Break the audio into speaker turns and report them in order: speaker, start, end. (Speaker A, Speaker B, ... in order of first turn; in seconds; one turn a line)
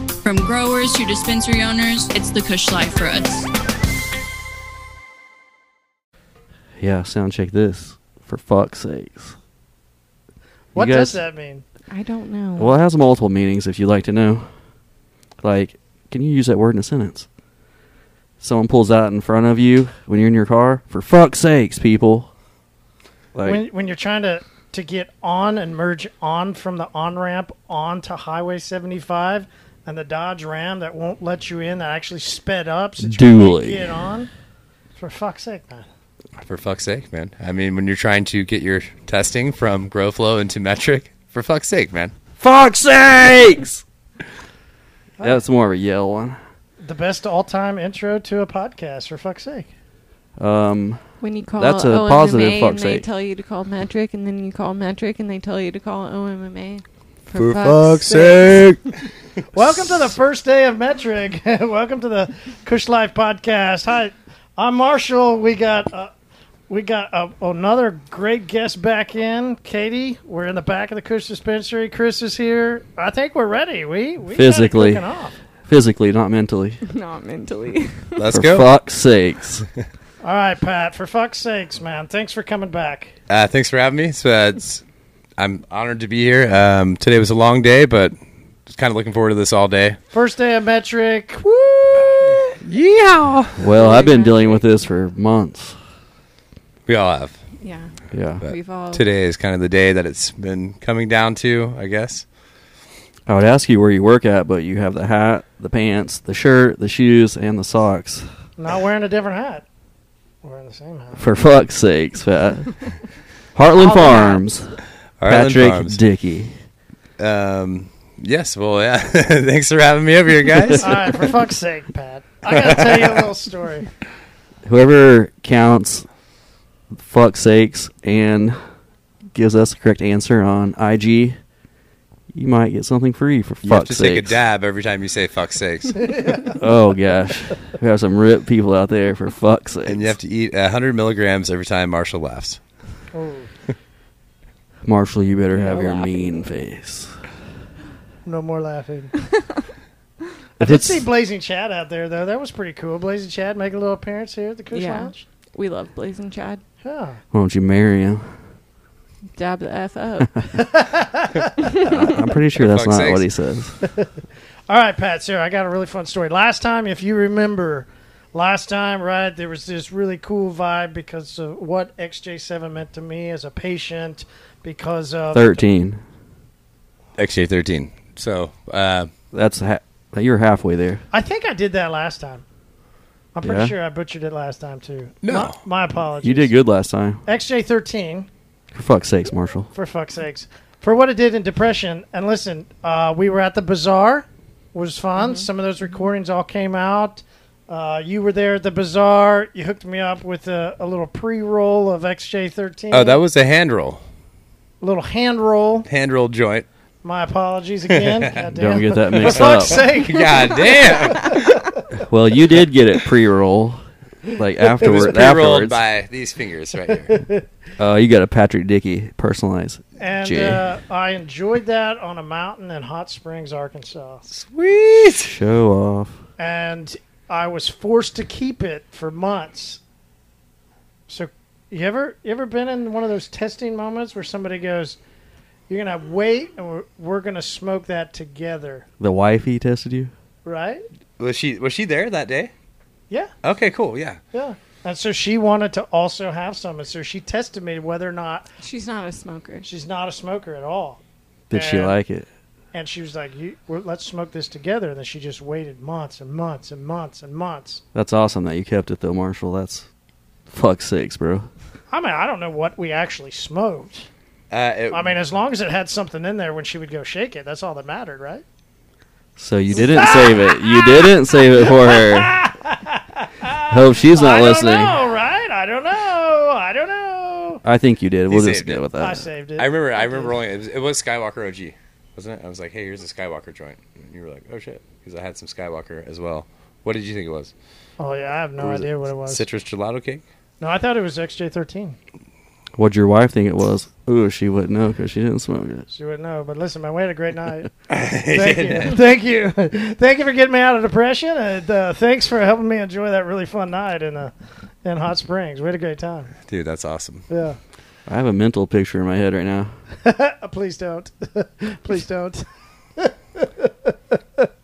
Speaker A: 0.2-3.5
Speaker B: 6.8-9.4
Speaker B: 10.8-11.2
Speaker C: 10.8-11.7
Speaker D: 11.9-12.8
Speaker B: 12.6-14.6
Speaker B: 15.4-17.3
Speaker B: 18.4-22.3
Speaker B: 23.3-23.7
Speaker C: 23.4-34.3
Speaker B: 33.0-33.9
Speaker C: 35.0-35.9
Speaker E: 36.4-42.1
Speaker B: 42.4-43.8
Speaker B: 45.2-46.4
Speaker C: 46.8-49.7
Speaker B: 50.4-51.0
Speaker D: 51.2-58.6
Speaker B: 51.6-53.1
Speaker E: 57.4-58.8
Speaker C: 59.5-66.1
Speaker C: 66.7-75.4
Speaker B: 74.3-75.1
Speaker B: 75.6-76.8
Speaker D: 76.8-78.3
Speaker E: 78.2-78.7
Speaker B: 78.3-79.7
Speaker C: 80.2-83.2
Speaker E: 83.3-84.8
Speaker E: 85.4-90.0
Speaker C: 90.1-92.5
Speaker E: 92.1-93.7
Speaker B: 93.6-95.8
Speaker D: 93.7-94.7
Speaker E: 96.9-97.4
Speaker D: 97.6-99.0
Speaker B: 98.1-98.4
Speaker E: 98.4-102.2
Speaker B: 103.3-108.3
Speaker C: 108.6-109.7
Speaker C: 110.4-111.2
Speaker B: 111.1-112.9
Speaker B: 113.5-116.5
Speaker D: 113.8-114.4
Speaker E: 115.2-116.0
Speaker E: 117.2-121.3
Speaker C: 120.8-123.9
Speaker E: 122.5-123.2
Speaker B: 124.6-126.1
Speaker B: 126.9-128.6
Speaker B: 129.3-131.4
Speaker B: 132.3-134.4
Speaker E: 133.6-136.1
Speaker C: 136.0-136.6
Speaker B: 136.6-140.2
Speaker E: 139.9-142.6
Speaker C: 143.1-143.5
Speaker B: 144.8-147.3
Speaker D: 145.6-146.2
Speaker C: 148.2-149.1
Speaker C: 150.6-155.3
Speaker B: 150.6-151.1
Speaker D: 154.7-156.6
Speaker C: 156.8-157.2
Speaker B: 157.3-158.4
Speaker D: 159.4-160.3
Speaker C: 160.5-161.7
Speaker B: 161.8-163.8
Speaker E: 162.5-163.2
Speaker C: 164.7-175.6
Speaker B: 175.3-176.0
Speaker E: 177.2-179.1
Speaker B: 179.3-181.1
Speaker C: 181.1-182.4
Speaker C: 183.3-186.5
Speaker B: 183.4-183.8
Speaker E: 185.2-185.6
Speaker B: 186.2-187.2
Speaker C: 187.3-188.3
Speaker B: 188.7-189.7
Speaker C: 189.7-203.2
Speaker D: 195.2-195.5
Speaker E: 202.9-204.0
Speaker C: 204.8-205.9
Speaker E: 205.9-206.7
Speaker C: 207.0-211.4
Speaker E: 207.9-208.4
Speaker B: 208.5-209.8
Speaker E: 209.1-211.7
Speaker D: 210.3-211.4
Speaker B: 211.9-215.8
Speaker E: 214.8-217.2
Speaker C: 217.1-217.4
Speaker B: 217.8-220.7
Speaker C: 220.0-224.2
Speaker E: 224.3-225.4
Speaker B: 225.1-226.2
Speaker C: 226.4-229.8
Speaker C: 231.1-235.0
Speaker C: 235.7-238.9
Speaker B: 239.0-240.1
Speaker C: 240.4-240.8
Speaker E: 241.2-242.5
Speaker E: 243.4-244.2
Speaker C: 244.3-248.5
Speaker D: 248.6-249.7
Speaker C: 249.6-252.0
Speaker B: 251.5-252.3
Speaker C: 252.7-257.8
Speaker B: 257.9-259.9
Speaker B: 260.5-261.5
Speaker C: 261.9-264.1
Speaker E: 264.5-265.2
Speaker C: 264.9-268.4
Speaker B: 269.4-272.4
Speaker C: 269.7-277.6
Speaker B: 273.7-275.0
Speaker B: 277.6-279.3
Speaker E: 278.3-278.8
Speaker C: 279.0-280.4
Speaker E: 279.6-287.5
Speaker C: 288.0-289.4
Speaker E: 288.6-290.2
Speaker C: 290.6-292.0
Speaker B: 292.8-295.9
Speaker C: 295.9-297.7
Speaker E: 297.9-298.9
Speaker C: 298.3-306.3
Speaker E: 306.5-307.3
Speaker C: 307.3-307.6
Speaker B: 308.1-309.8
Speaker C: 310.0-312.4
Speaker C: 313.0-313.7